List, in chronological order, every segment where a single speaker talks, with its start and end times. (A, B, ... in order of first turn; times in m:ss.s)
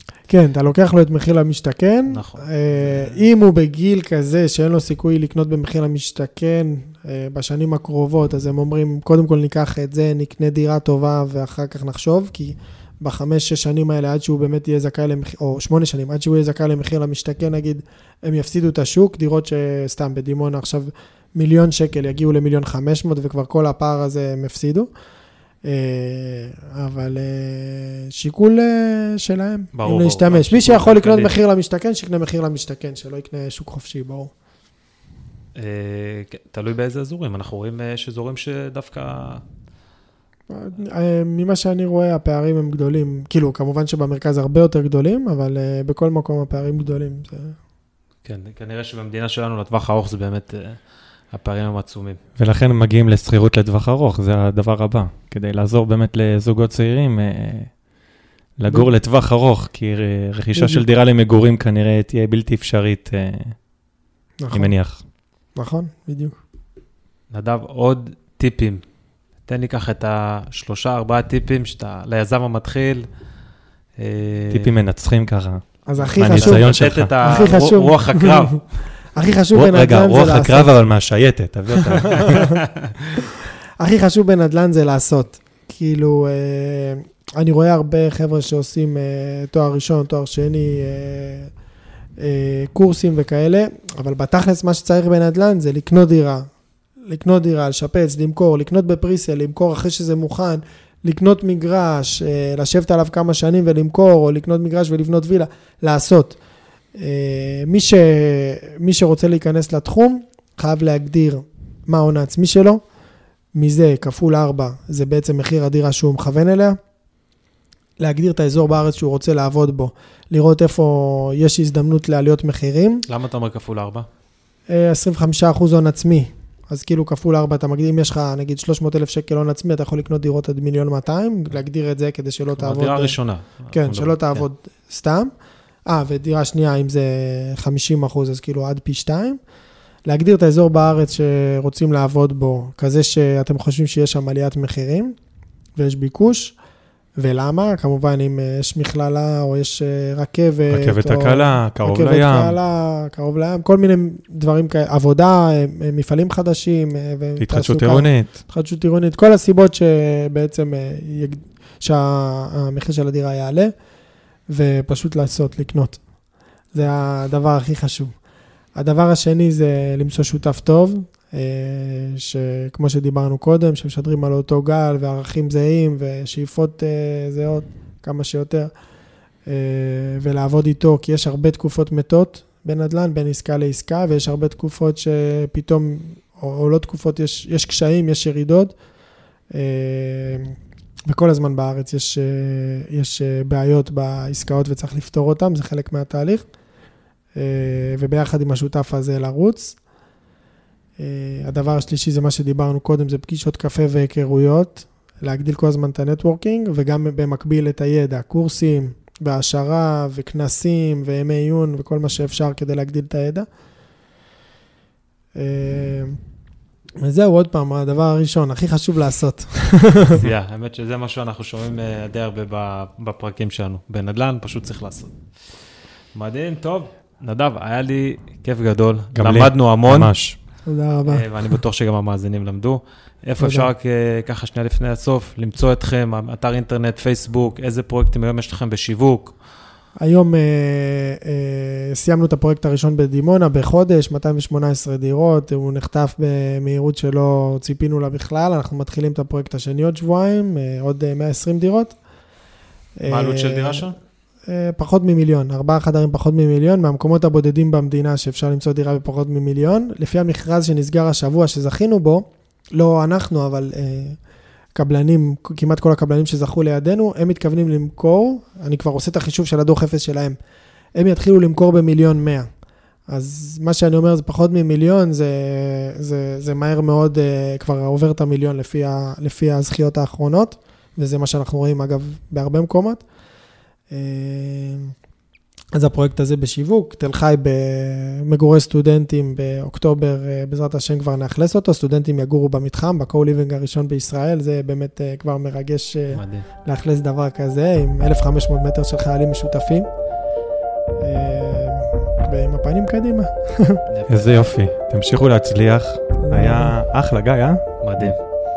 0:00.3-0:24.9 A
0:02.1-0:03.2 B
0:25.6-0:34.3 A
0:29.7-0:31.3 B
0:35.6-0:39.4 B
0:40.5-0:47.6 A
0:48.2-0:52.2 B
0:52.4-0:57.7 C
0:58.6-1:03.6 C
1:00.5-1:00.9 A
1:04.4-1:04.8 A
1:04.5-1:05.0 C
1:05.5-1:06.4 A
1:07.3-1:08.8 B
1:09.4-1:13.0 B
1:14.0-1:14.7 B
1:14.5-1:17.5 C
1:15.8-1:18.6 A
1:16.1-1:18.6 B
1:19.1-1:20.7 A
1:19.5-1:22.5 C
1:23.8-1:31.5 A
1:32.2-1:36.5 A
1:37.1-1:46.4 A
1:46.9-1:52.8 A
1:53.5-1:56.8 A
1:58.0-2:03.0 A
2:03.1-2:04.1 B
2:04.7-2:13.2 A
2:12.6-2:14.4 B
2:13.7-2:15.3 A
2:15.9-2:19.4 A
2:20.0-2:25.2 A
2:25.8-2:26.5 A
2:27.2-2:43.7 A
2:30.7-2:32.6 C
2:37.4-2:38.4 C
2:44.5-2:46.0 A
2:46.7-2:48.1 A
2:48.7-2:58.7 A
2:59.5-3:08.7 A
3:09.5-3:10.6 A
3:11.1-3:16.5 A
3:17.3-3:19.8 A
3:21.0-3:33.5 A
3:35.3-3:36.2 A
3:37.0-3:40.1 A
3:40.1-3:50.1 B
3:49.1-3:50.4 C
3:50.6-3:51.2 A
3:51.0-3:59.3 B
3:53.4-3:53.7 A
4:00.0-4:12.0 A
4:13.0-4:13.9 A
4:13.1-4:14.0 B
4:14.5-4:24.2 A
4:24.7-4:30.4 A
4:30.9-4:32.5 A
4:33.1-4:43.0 A
4:43.9-4:44.9 A
4:45.7-4:59.9 A
4:56.1-4:56.5 B
5:01.0-5:03.8 A
5:03.9-5:04.4 B
5:04.1-5:08.2 C
5:06.2-5:06.8 A
5:07.8-5:08.2 B